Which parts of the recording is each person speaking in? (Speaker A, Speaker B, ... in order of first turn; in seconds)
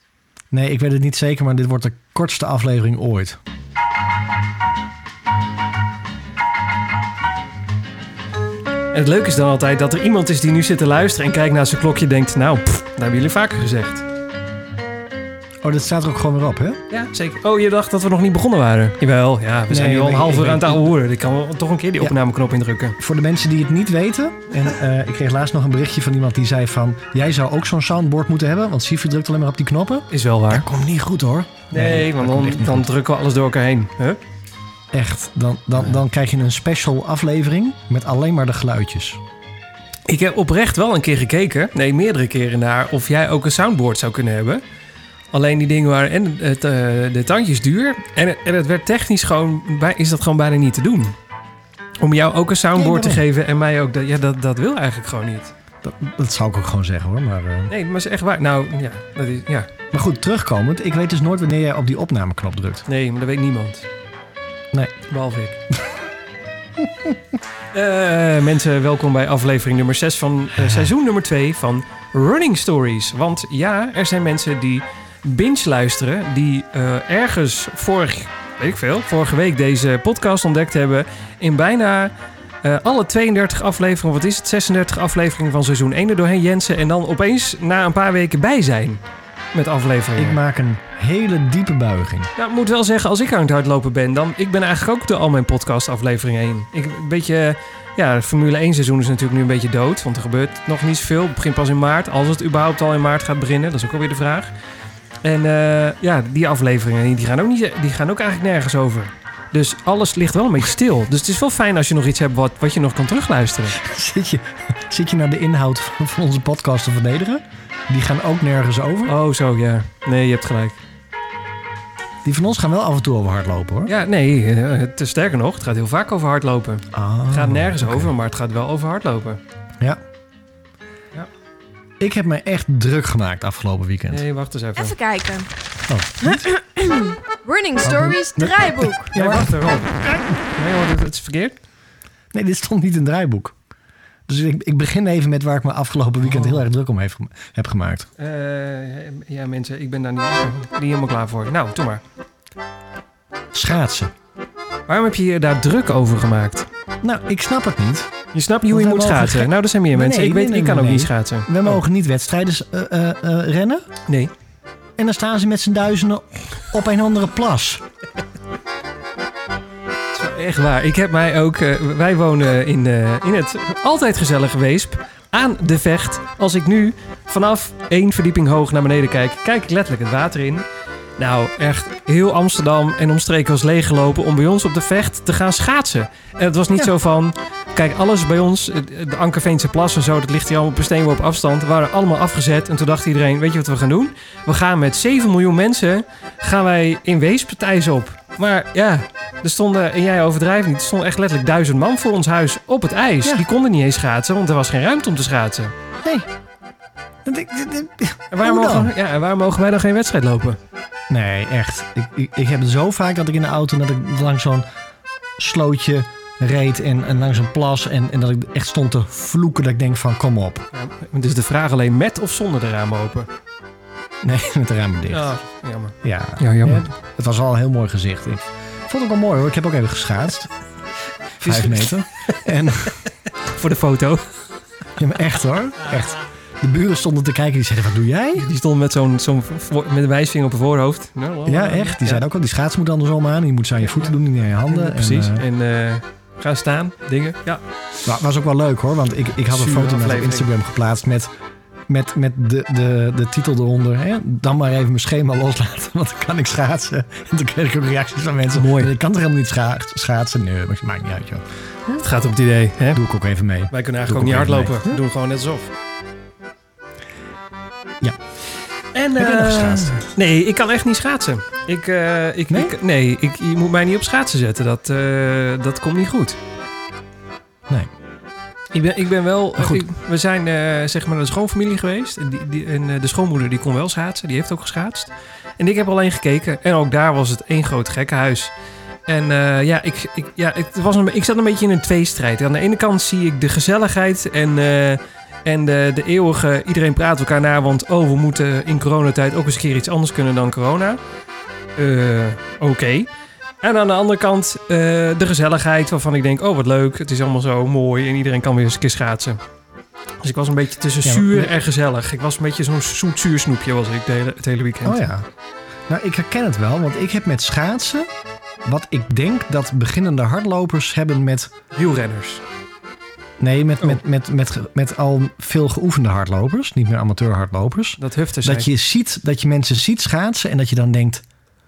Speaker A: 0.5-3.4, 15.6-16.8, 19.7-20.9, 23.0-32.9, 34.9-39.2, 52.8-53.2, 55.8-57.7, 59.9-62.9, 66.8-67.2, 70.6-70.9, 90.2-92.3, 113.8-119.1, 122.2-123.9, 126.9-128.1, 132.0-134.2, 135.9-136.5, 137.8-139.8, 142.3-143.6, 144.3-148.1, 153.5-154.1, 157.0-158.1, 158.7-163.8, 165.0-167.8, 207.2-208.9, 211.1-214.7, 215.4-220.7, 224.2-225.3, 226.0-230.5, 231.4-233.0, 235.0-238.5, 241.5-245.4, 248.0-251.3, 251.9-262.0, 262.9-265.0, 269.2-270.0, 279.6-279.8, 311.0-311.5, 314.9-315.3, 315.9-318.1, 318.6-321.5, 323.4-331.2
Speaker B: 8.9-14.0, 16.9-23.0, 30.1-30.6, 31.7-34.2, 40.1-44.6, 45.3-51.1, 52.0-55.5, 57.7-59.7, 62.9-63.9, 65.1-65.6, 67.7-89.0, 89.5-90.4, 92.4-104.5, 105.2-113.8, 119.0-120.8, 123.9-129.4, 134.1-135.0, 139.1-141.6, 146.2-146.6, 148.2-152.0, 154.9-156.7, 158.3-161.8, 164.1-164.3, 170.1-180.7, 181.2-205.7, 208.3-210.6, 220.7-223.3, 225.1-226.9, 231.4-232.4, 233.0-234.5, 238.3-242.2, 244.7-247.6, 249.4-250.5, 258.5-258.9, 261.9-263.0, 263.7-265.7, 268.9-276.4, 278.7-288.5, 289.1-301.0, 301.8-303.1, 303.6-309.4, 310.2-315.1, 321.8-322.4, 328.0-328.7
Speaker C: 134.8-135.5, 136.2-139.1